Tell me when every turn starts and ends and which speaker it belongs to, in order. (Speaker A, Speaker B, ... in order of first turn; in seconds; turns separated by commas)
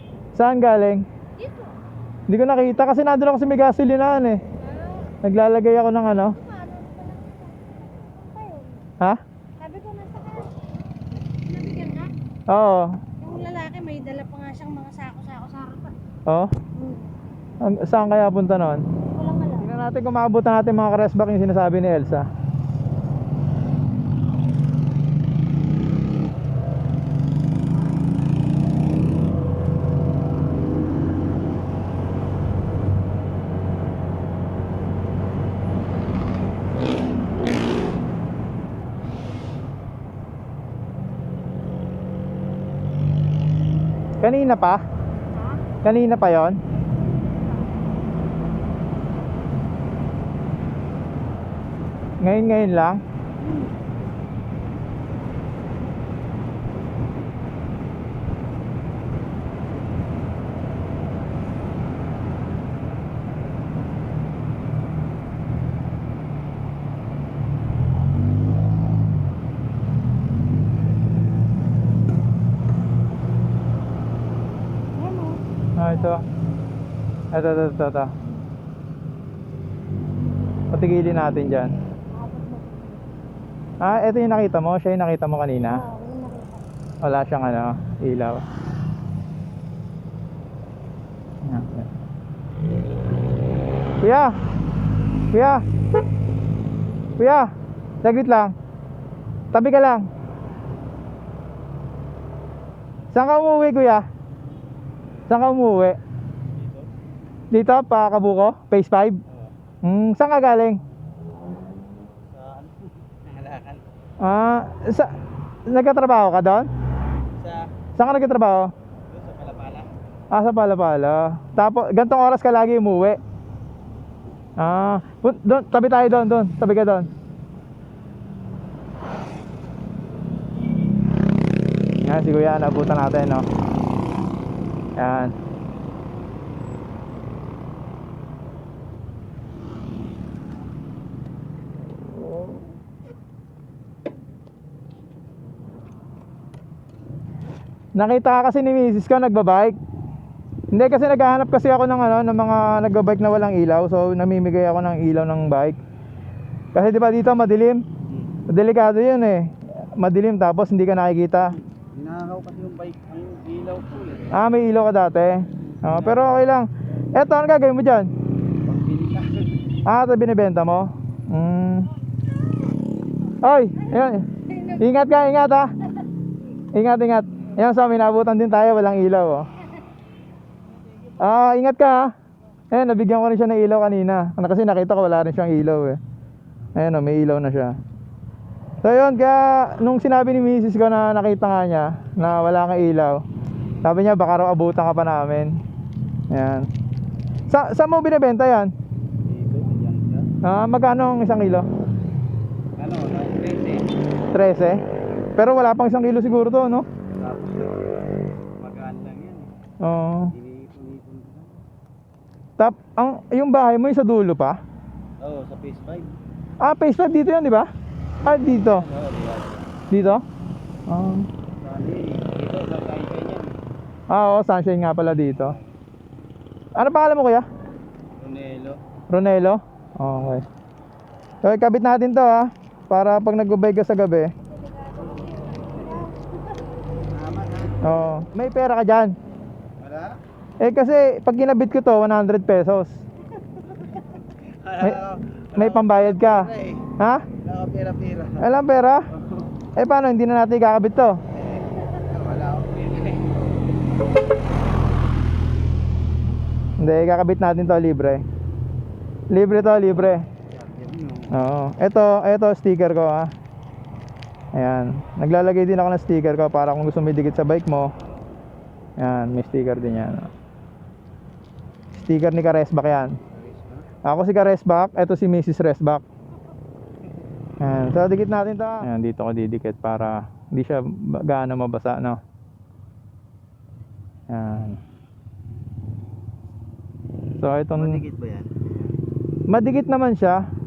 Speaker A: 0.3-1.1, Speaker B: 1.4-1.7, Speaker A: 2.3-4.4, Speaker B: 4.6-5.2, Speaker A: 5.2-6.4, Speaker B: 6.2-8.8, Speaker B: 9.6-10.6, Speaker B: 11.5-12.1, Speaker A: 12.5-13.0, Speaker B: 13.2-15.9, Speaker A: 16.3-16.6, Speaker B: 16.8-17.1, Speaker A: 17.6-18.8, Speaker B: 19.1-19.7, Speaker A: 19.6-22.3, Speaker A: 44.2-44.8, Speaker B: 45.3-45.7, Speaker A: 45.8-46.6, Speaker A: 52.2-53.0, Speaker B: 53.4-53.7, Speaker B: 75.0-76.2, Speaker A: 75.8-76.2, Speaker A: 77.3-78.1, Speaker A: 80.7-81.8, Speaker B: 82.1-83.0, Speaker A: 83.8-85.8, Speaker B: 85.7-86.7, Speaker A: 87.0-88.5, Speaker A: 91.4-91.9, Speaker A: 94.0-94.4, Speaker A: 95.3-95.6, Speaker A: 97.2-97.5, Speaker A: 98.0-98.5, Speaker A: 99.5-100.1, Speaker A: 103.1-104.1, Speaker A: 105.3-106.0, Speaker C: 106.5-106.9, Speaker A: 107.5-109.2, Speaker A: 109.8-110.8, Speaker C: 112.3-113.8, Speaker A: 114.2-115.1, Speaker A: 115.7-116.7, Speaker C: 117.4-117.7, Speaker A: 118.0-118.7, Speaker C: 119.1-119.9, Speaker A: 120.3-123.2, Speaker A: 124.6-127.1, Speaker A: 132.0-133.5, Speaker A: 135.0-135.3, Speaker A: 142.3-142.6, Speaker A: 148.0-149.8, Speaker A: 150.7-155.8, Speaker A: 156.7-157.8, Speaker C: 158.1-158.4, Speaker A: 158.5-161.6, Speaker C: 161.4-164.3, Speaker A: 164.3-168.1, Speaker C: 165.8-166.3, Speaker C: 168.7-169.5, Speaker A: 169.9-171.9, Speaker A: 173.4-175.7, Speaker B: 174.5-174.8, Speaker A: 176.7-179.5, Speaker A: 181.2-182.1, Speaker A: 182.7-186.0, Speaker A: 186.8-187.8, Speaker A: 188.8-193.2, Speaker A: 193.8-195.6, Speaker A: 196.3-196.7, Speaker A: 197.5-198.7, Speaker C: 199.3-200.3, Speaker A: 200.4-201.7, Speaker C: 202.8-203.9, Speaker A: 204.3-204.8, Speaker A: 205.4-206.9, Speaker C: 207.2-207.8, Speaker C: 208.6-209.5, Speaker A: 209.8-210.3, Speaker C: 210.3-211.6, Speaker A: 212.6-214.6, Speaker C: 215.2-216.2, Speaker A: 216.6-217.7, Speaker A: 218.2-218.8, Speaker C: 218.2-219.7, Speaker A: 219.9-220.2, Speaker A: 220.9-221.3, Speaker C: 221.6-223.5, Speaker A: 224.1-225.6, Speaker A: 226.8-227.5, Speaker C: 228.2-228.8, Speaker A: 229.1-230.4, Speaker A: 231.4-234.3, Speaker B: 234.4-236.6, Speaker C: 237.1-237.8, Speaker A: 237.8-239.2, Speaker C: 239.8-240.2, Speaker A: 240.6-243.0, Speaker C: 244.4-246.9, Speaker A: 245.6-247.3, Speaker C: 247.4-248.5, Speaker A: 248.4-249.1, Speaker C: 249.2-249.5, Speaker A: 249.8-251.2, Speaker C: 251.6-253.3, Speaker A: 256.8-258.2, Speaker A: 259.3-260.2, Speaker C: 260.5-261.3, Speaker A: 261.3-263.3, Speaker A: 264.6-267.9, Speaker A: 269.0-270.3, Speaker A: 272.0-273.2, Speaker C: 273.3-273.9, Speaker A: 274.0-276.0, Speaker A: 277.6-282.2, Speaker A: 284.3-284.8, Speaker A: 287.4-288.0, Speaker C: 287.8-288.6, Speaker A: 289.5-290.4